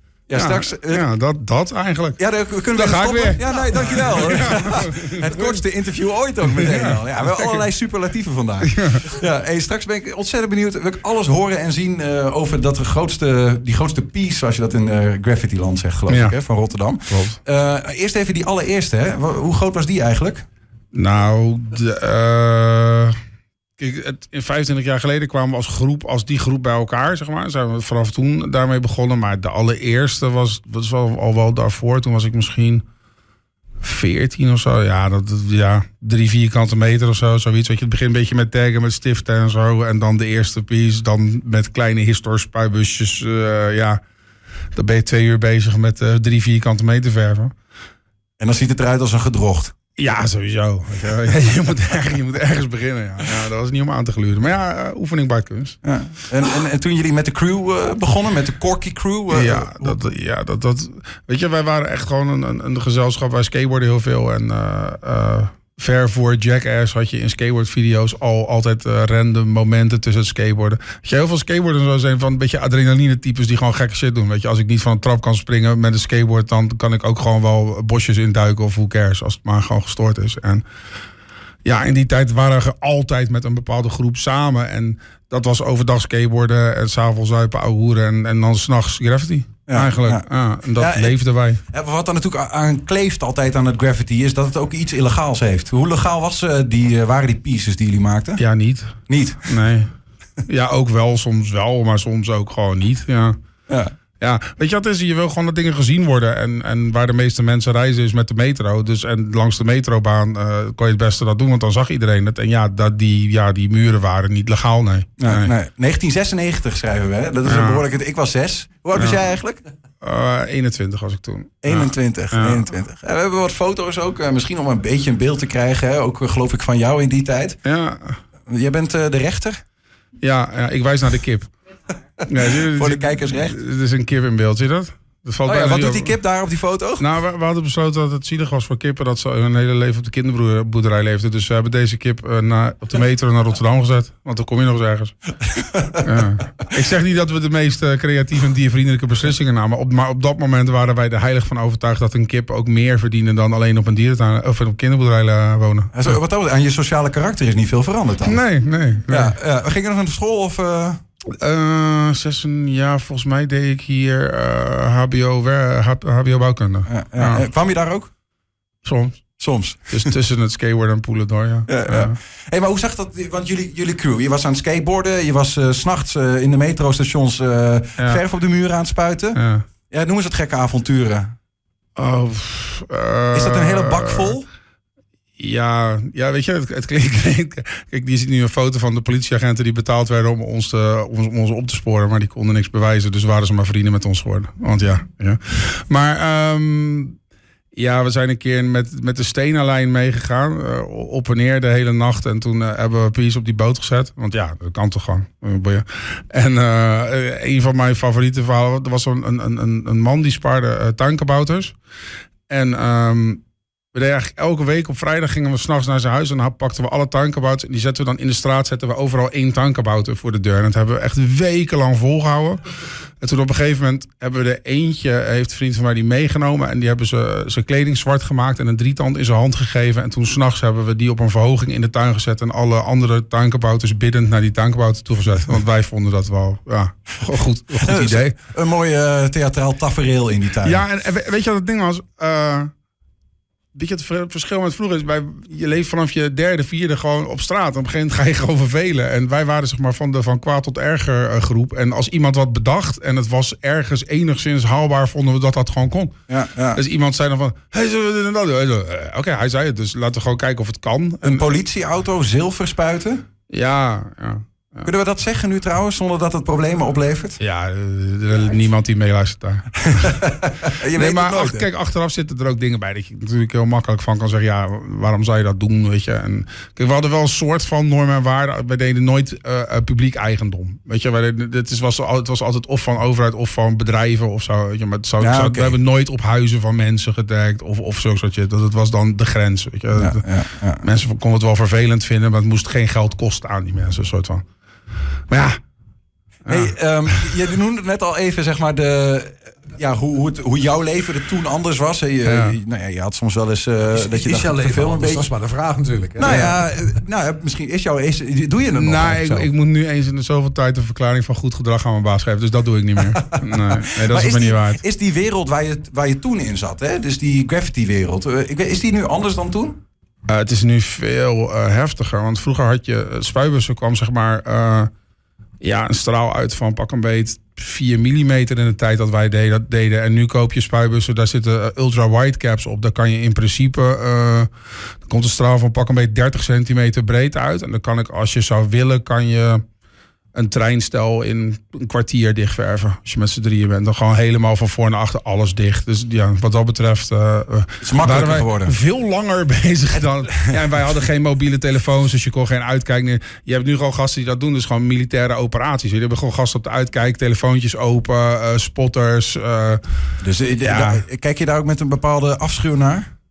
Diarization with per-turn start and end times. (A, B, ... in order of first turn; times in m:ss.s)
0:00.3-0:01.0 A
0:00.3-0:02.2 B
0:02.2-0:20.4 A
0:02.7-0:05.6 B
0:06.6-0:07.6 B
0:08.6-0:09.1 B
0:16.1-0:16.4 B
0:17.1-0:17.4 B
0:20.9-0:23.1 B
0:23.8-0:32.8 B
0:33.8-0:44.0 B
0:44.8-0:47.5 B
0:48.4-0:49.7 A
0:50.0-0:55.8 B
0:55.8-1:00.0 A
0:59.3-1:20.6 B
1:21.6-1:31.6 B
1:29.7-1:31.2 A
1:31.7-1:38.4 A
1:38.4-1:39.9 B
1:39.1-1:39.6 A
1:40.4-1:43.3 B
1:44.2-1:55.5 B
1:55.2-1:59.6 A
1:57.4-1:57.8 B
1:58.9-1:59.3 B
2:00.0-2:02.7 B
2:01.6-2:07.6 A
2:07.6-2:08.2 B
2:08.5-2:09.6 A
2:10.2-2:11.5 B
2:12.2-2:16.1 B
2:12.6-2:13.6 A
2:15.4-2:17.0 A
2:17.0-2:25.3 B
2:25.5-2:26.0 A
2:26.0-2:36.2 B
2:35.9-2:38.4 A
2:38.2-2:39.3 B
2:39.1-2:41.0 A
2:41.4-2:47.4 B
2:46.9-2:48.1 A
2:48.8-2:49.2 B
2:49.4-2:50.1 A
2:49.9-2:52.2 B
2:51.7-3:01.3 A
2:59.3-2:59.6 B
3:02.0-3:04.3 B
3:03.3-3:04.5 A
3:05.4-3:17.2 B
3:17.7-3:31.8 B
3:32.5-3:33.4 B
3:33.9-3:42.6 B
3:43.2-3:58.4 B
3:57.8-4:00.8 A
4:00.6-4:02.7 B
4:03.7-4:16.1 B
4:16.3-4:16.8 A
4:16.7-4:21.5 B
4:21.2-4:23.2 A
4:23.5-4:24.9 B
4:24.8-4:27.4 A
4:27.4-4:54.4 B
4:29.9-4:31.7 A
4:45.2-4:45.8 A
4:50.0-4:50.8 A
4:55.3-4:55.6 B
4:56.4-4:57.3 B
4:56.5-5:05.3 A
5:02.2-5:02.6 B
5:03.9-5:06.6 C
5:06.2-5:09.5 A
5:08.8-5:14.8 B
5:13.2-5:19.8 A
5:20.3-5:24.9 B
5:25.6-5:34.5 B
5:35.0-5:39.6 B
5:40.3-5:59.8 B
5:47.8-5:48.7 A
6:00.2-6:03.1 A
6:00.6-6:01.0 B